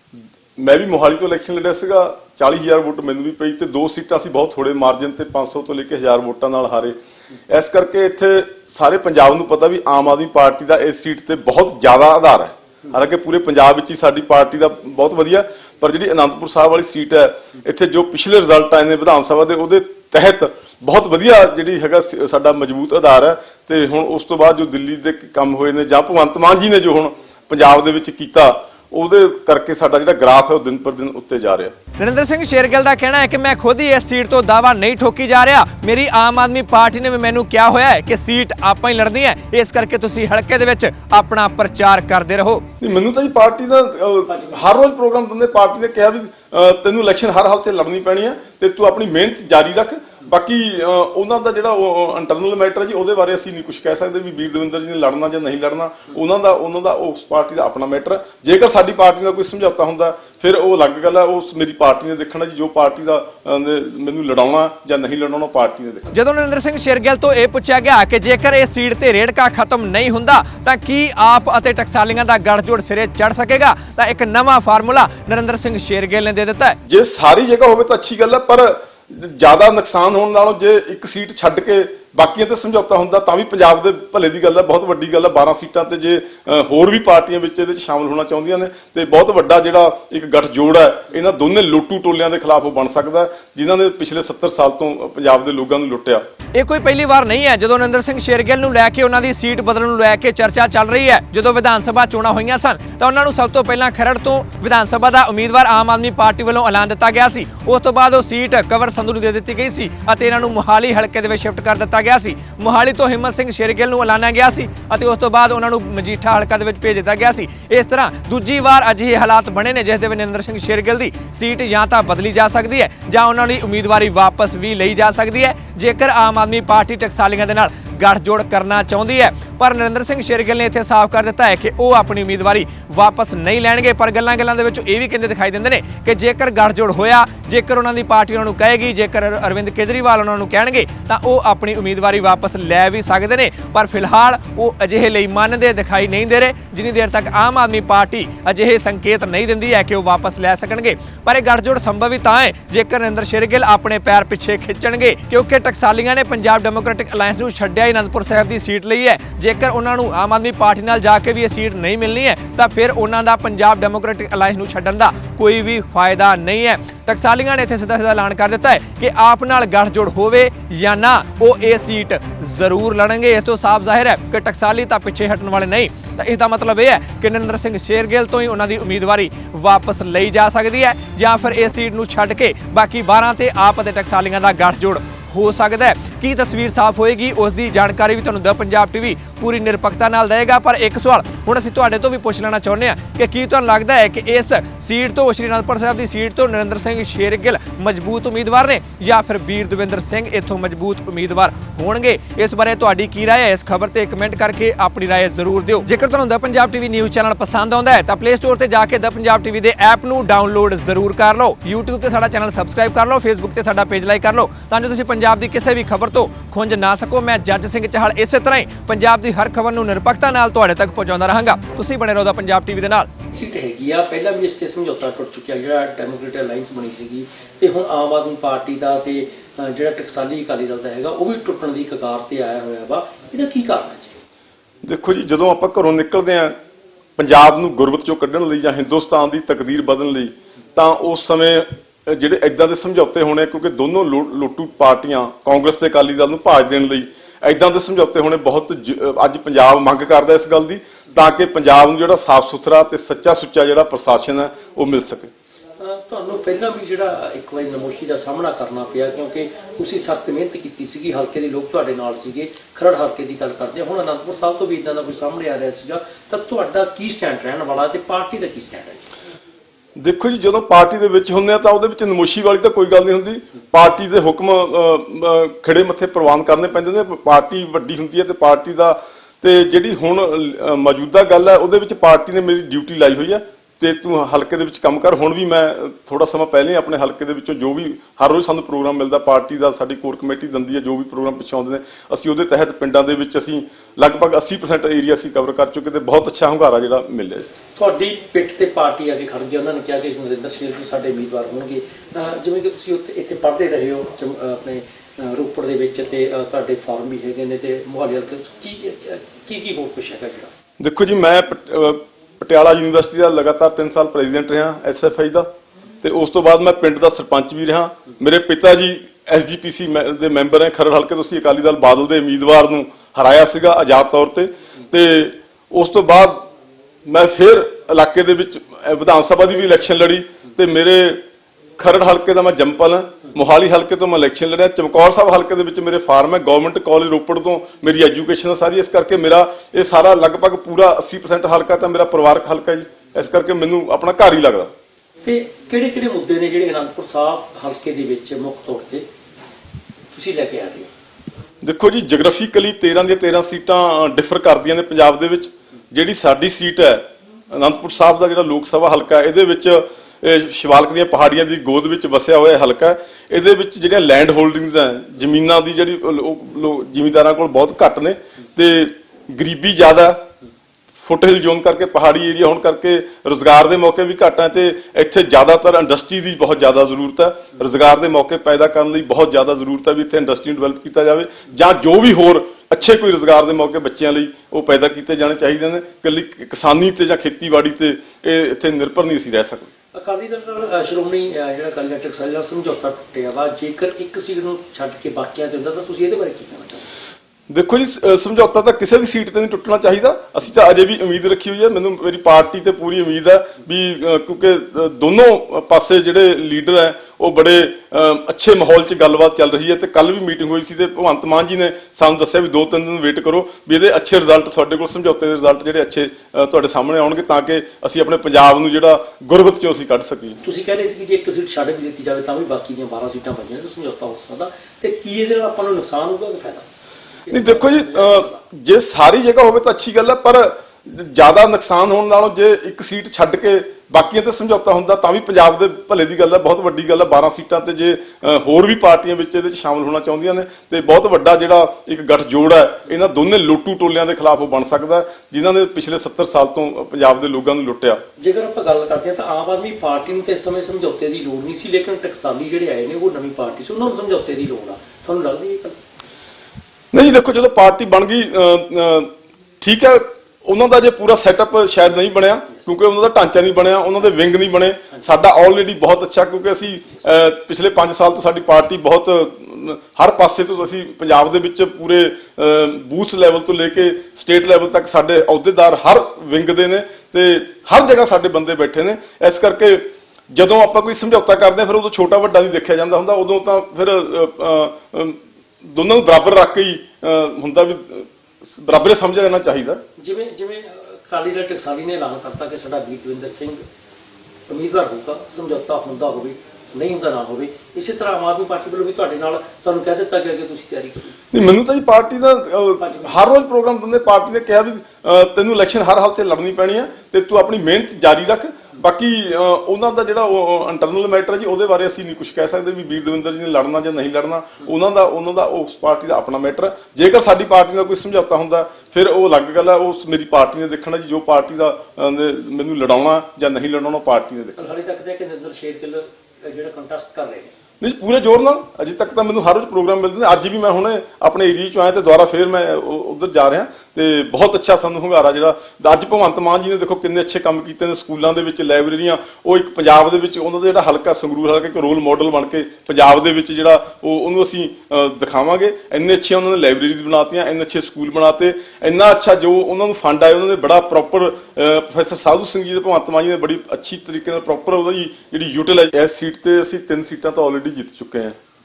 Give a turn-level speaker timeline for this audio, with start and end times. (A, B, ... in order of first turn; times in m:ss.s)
0:00.6-0:07.0 A
0:07.5-0:31.7 A
0:32.0-0:42.6 B
0:42.8-1:06.1 A
0:44.3-0:44.7 C
1:06.1-1:16.8 B
1:16.8-1:36.2 A
1:36.5-3:43.1 B
3:43.3-3:54.2 C
3:54.8-3:56.5 A
3:57.2-4:15.3 A
4:15.8-4:29.0 C
4:30.0-4:57.5 A
4:57.8-5:10.5 C
5:10.8-5:15.5 A
5:16.0-5:26.5 A
5:27.0-5:31.2 A
5:31.8-5:44.7 A
5:45.2-5:49.0 C
5:50.1-5:50.9 C
5:51.6-6:10.2 A
6:11.0-6:29.7 A
6:29.9-6:36.8 C
6:37.5-7:00.4 A
7:00.4-7:06.6 C
7:07.2-7:08.4 C
7:07.3-7:28.0 A
7:28.2-7:35.8 C
7:36.9-8:09.8 A
8:10.0-8:13.6 C
8:14.5-8:21.1 C
8:21.3-8:44.7 A
8:22.8-8:23.2 C
8:44.6-8:47.5 C
8:47.8-9:18.4 A